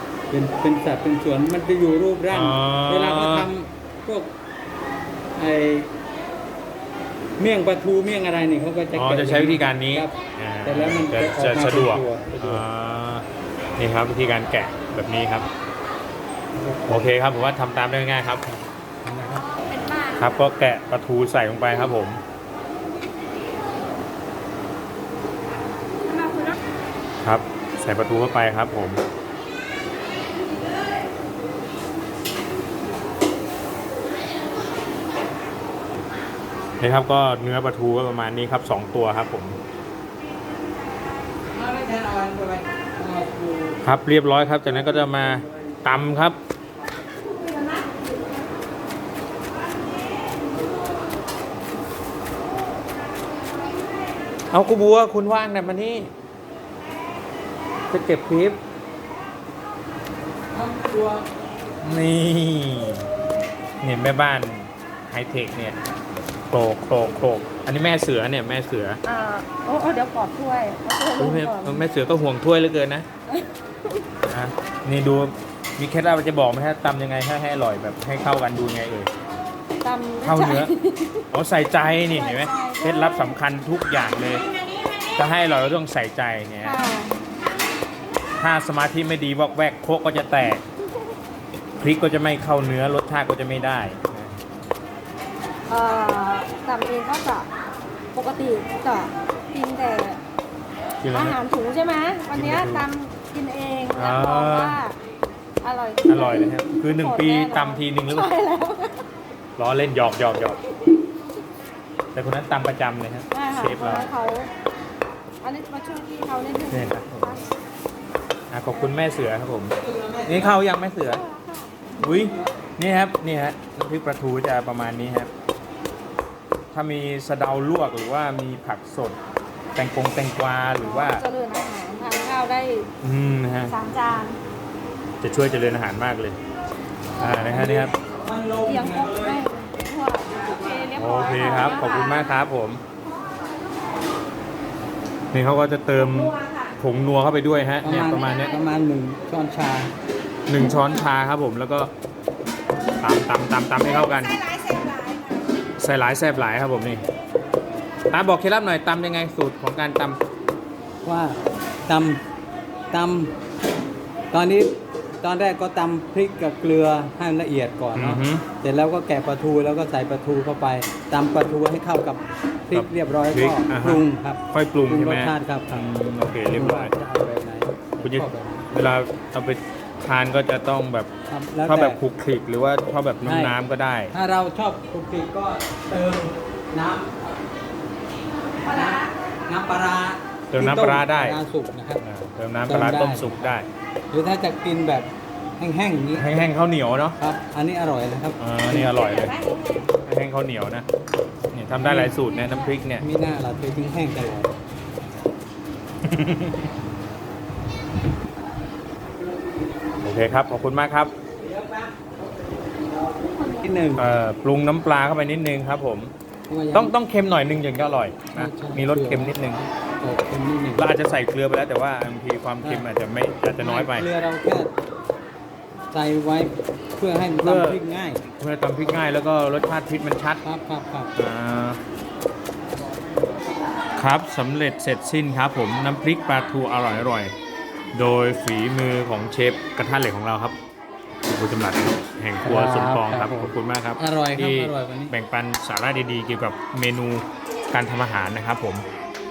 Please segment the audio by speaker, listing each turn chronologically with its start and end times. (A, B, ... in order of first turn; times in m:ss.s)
0:00.3-0:04.4 A
0:02.3-0:03.5 B
0:05.4-0:05.9 A
0:07.4-0:10.1 A
0:08.9-0:15.5 B
0:10.6-0:12.6 A
0:16.5-0:17.1 A
0:16.9-0:18.5 B
0:19.0-0:19.5 A
0:19.8-0:20.2 C
0:20.1-0:22.2 B
0:27.2-0:29.0 B
0:36.8-0:39.6 B
0:41.5-0:43.8 A
0:43.8-0:46.4 B
0:44.7-0:45.7 A
0:54.5-0:56.1 B
0:57.9-0:58.6 B
1:00.5-1:01.3 A
1:01.8-1:03.1 B
1:03.8-1:05.8 B
1:06.5-1:09.0 B
1:09.0-1:11.9 C
1:11.2-1:13.1 B
1:13.3-1:14.0 C
1:14.2-1:19.1 B
1:19.8-1:21.3 C
1:20.2-1:20.7 B
1:21.3-1:24.5 B
1:22.1-1:23.1 C
1:25.2-1:26.8 B
1:26.6-1:27.1 C
1:28.4-1:30.6 B
1:31.8-1:34.4 B
1:35.7-1:37.5 C
1:38.1-1:40.2 C
1:41.0-1:41.4 B
1:41.1-1:45.0 C
1:42.3-1:42.9 B
1:44.0-1:44.8 B
1:45.6-1:49.1 C
1:46.1-1:48.3 B
1:49.6-1:50.6 B
1:52.1-1:54.1 B
1:53.3-1:54.5 C
1:55.4-1:57.4 C
1:56.7-1:57.4 B
1:58.5-2:01.2 B
1:59.8-2:00.6 A
2:01.0-2:02.0 C
2:02.0-2:05.3 B
2:06.7-2:09.2 B
2:09.8-2:11.2 B
2:10.8-2:12.9 C
2:13.0-2:13.8 B
2:13.7-2:14.4 C
2:15.2-2:16.4 B
2:17.2-2:18.0 B
2:17.2-2:17.9 C
2:17.9-2:19.4 A
2:18.6-2:22.3 C
2:21.0-2:22.8 B
2:25.3-2:28.6 B
2:27.8-2:29.9 A
2:30.5-2:31.9 B
2:30.6-2:30.9 C
2:33.0-2:34.5 B
2:34.5-2:35.4 C
2:35.8-2:37.0 B
2:38.1-2:40.2 B
2:41.0-2:42.2 A
2:42.9-2:43.3 A
2:44.3-2:55.8 A
2:48.0-2:48.5 B
2:52.7-2:57.0 B
2:56.5-2:58.7 A
2:58.0-3:01.1 B
3:01.3-3:02.0 A
3:01.6-3:04.1 B
3:03.2-3:07.4 A
3:08.6-3:12.0 A
3:10.5-3:11.4 B
3:12.0-3:13.7 B
3:12.7-3:13.6 A
3:14.1-3:16.3 A
3:16.2-3:17.2 B
3:17.2-3:19.0 A
3:18.4-3:20.9 B
3:18.9-3:19.9 C
3:21.5-3:23.0 B
3:21.8-3:22.2 A
3:23.0-3:24.5 A
3:26.0-3:26.7 B
3:30.0-3:31.1 B
3:31.4-3:34.1 A
3:33.9-3:36.1 B
3:36.5-3:36.9 A
3:36.7-3:39.6 B
3:38.3-3:40.9 A
3:40.7-3:44.1 B
3:42.6-3:42.9 A
3:43.6-3:44.7 A
3:45.9-3:48.2 A
3:47.4-3:47.8 B
3:48.4-3:50.4 B
3:50.4-3:51.1 A
3:51.2-3:51.8 B
3:54.0-3:57.3 B
3:57.9-4:00.6 B
4:01.2-4:08.9 B
4:02.4-4:05.1 A